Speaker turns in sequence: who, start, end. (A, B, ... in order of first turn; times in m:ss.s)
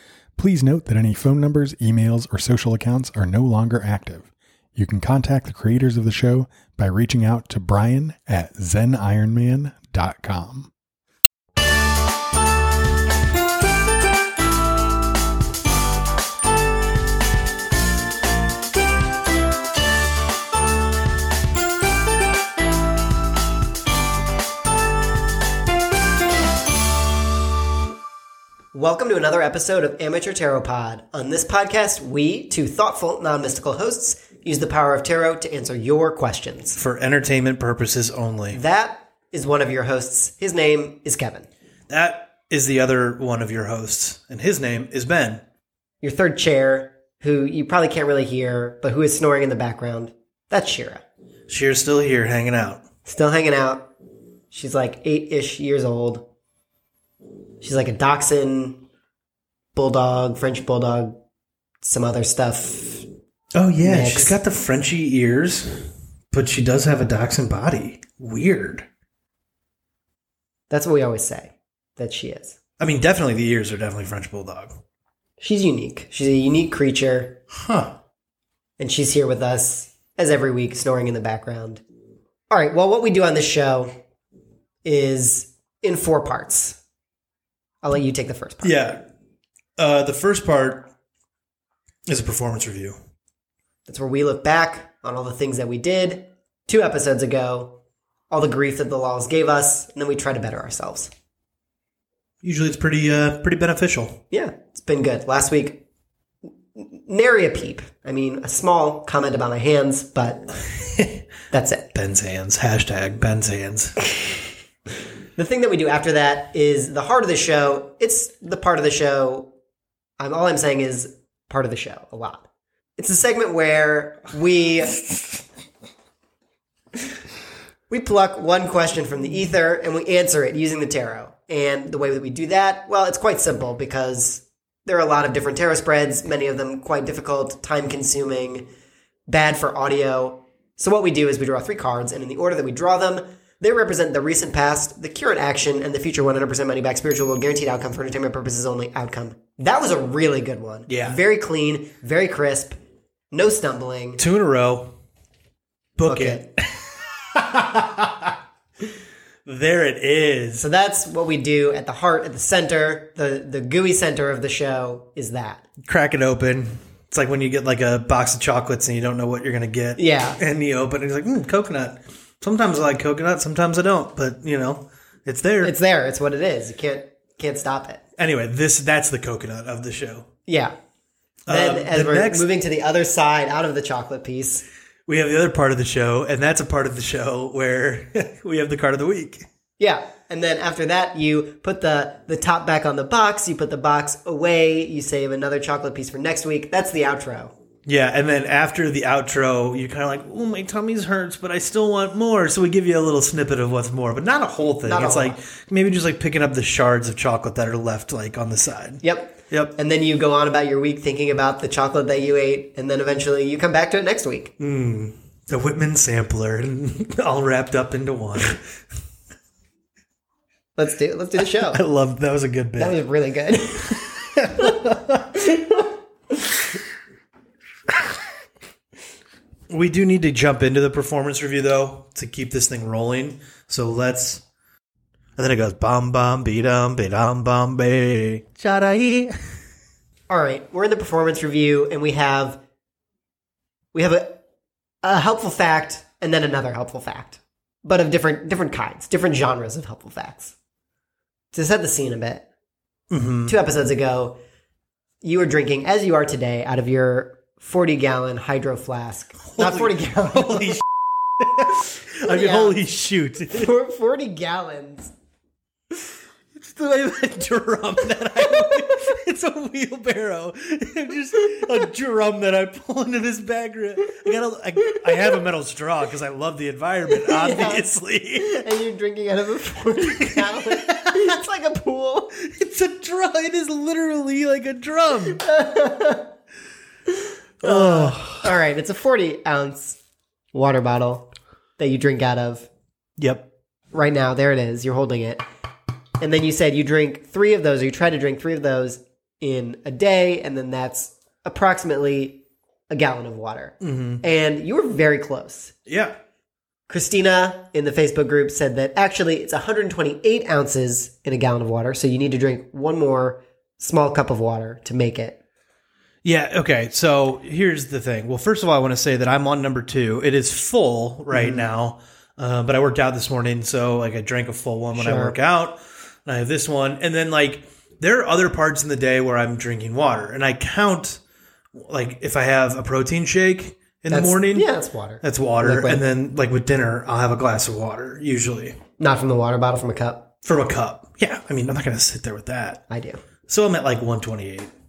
0:00.4-0:10.7 A
0:28.7-0:36.8 B
0:36.8-0:38.6 C
0:38.5-0:41.5 B
0:41.9-0:45.4 C
0:46.0-0:51.0 B
0:51.5-0:52.8 C
0:53.0-0:53.9 B
0:54.5-0:56.2 B
0:57.6-0:58.8 B
0:59.7-1:01.2 B
1:01.8-1:03.1 B
1:03.5-1:08.8 C
1:03.8-1:04.4 B
1:10.7-1:12.6 B
1:12.8-1:14.7 C
1:15.4-1:17.4 B
1:17.5-1:17.9 C
1:18.8-1:21.8 B
1:22.5-1:23.9 B
1:24.8-1:26.8 B
1:27.8-1:28.8 B
1:28.6-1:29.0 C
1:29.8-1:30.9 C
1:32.0-1:32.9 C
1:33.9-1:37.8 B
1:38.3-1:41.1 B
1:42.4-1:44.2 C
1:44.3-1:45.8 B
1:46.8-1:50.4 B
1:50.9-1:51.2 C
1:51.5-1:51.9 B
1:51.9-1:54.0 C
1:55.4-1:59.5 B
2:00.2-2:05.0 B
2:07.9-2:18.7 B
2:19.3-2:32.8 B
2:30.9-2:31.2 C
2:33.3-2:34.2 B
2:34.2-2:34.9 C
2:36.0-2:38.4 C
2:36.1-2:36.4 B
2:39.4-2:40.6 C
2:40.6-2:45.6 B
2:45.8-2:55.7 C
2:50.0-2:50.4 B
2:55.6-2:58.0 B
2:58.2-3:00.3 C
3:00.5-3:00.8 B
3:01.5-3:02.4 C
3:01.5-3:04.6 B
3:05.1-3:09.4 C
3:09.8-3:17.5 B
3:17.8-3:29.8 C
3:24.8-3:25.4 B
3:29.0-3:34.5 B
3:34.6-3:38.6 C
3:40.8-3:41.8 B
3:41.4-3:43.0 C
3:42.8-3:44.8 B
3:44.4-3:45.4 C
3:45.4-3:45.8 B
3:49.7-3:54.4 C
3:55.4-3:59.3 C
4:00.3-4:02.6 B
4:03.9-4:04.4 B
4:05.0-4:10.5 B
4:11.5-4:12.4 B
4:13.1-4:13.5 C
4:13.5-4:14.4 B
4:15.2-4:20.8 B
4:19.5-4:20.8 C
4:21.4-4:23.7 C
4:22.2-4:22.8 B
4:23.5-4:25.1 B
4:26.6-4:38.6 C
4:37.2-4:37.8 B
4:38.4-4:42.4 B
4:40.1-4:41.4 C
4:42.4-4:45.4 C
4:45.3-4:46.3 B
4:47.6-4:48.5 C
4:47.6-4:50.0 B
4:50.5-4:52.7 B
4:53.2-4:53.5 C
4:53.9-4:55.4 B
4:56.2-5:05.7 B
5:03.8-5:04.2 C
5:05.9-5:06.2 C
5:06.9-5:15.4 B
5:16.2-5:31.2 C
5:21.3-5:21.7 B
5:24.9-5:25.4 B
5:31.8-5:34.7 C
5:34.1-5:36.0 B
5:35.2-5:38.8 C
5:39.0-5:40.3 B
5:40.4-5:42.8 C
5:42.9-5:43.2 B
5:43.5-5:44.7 C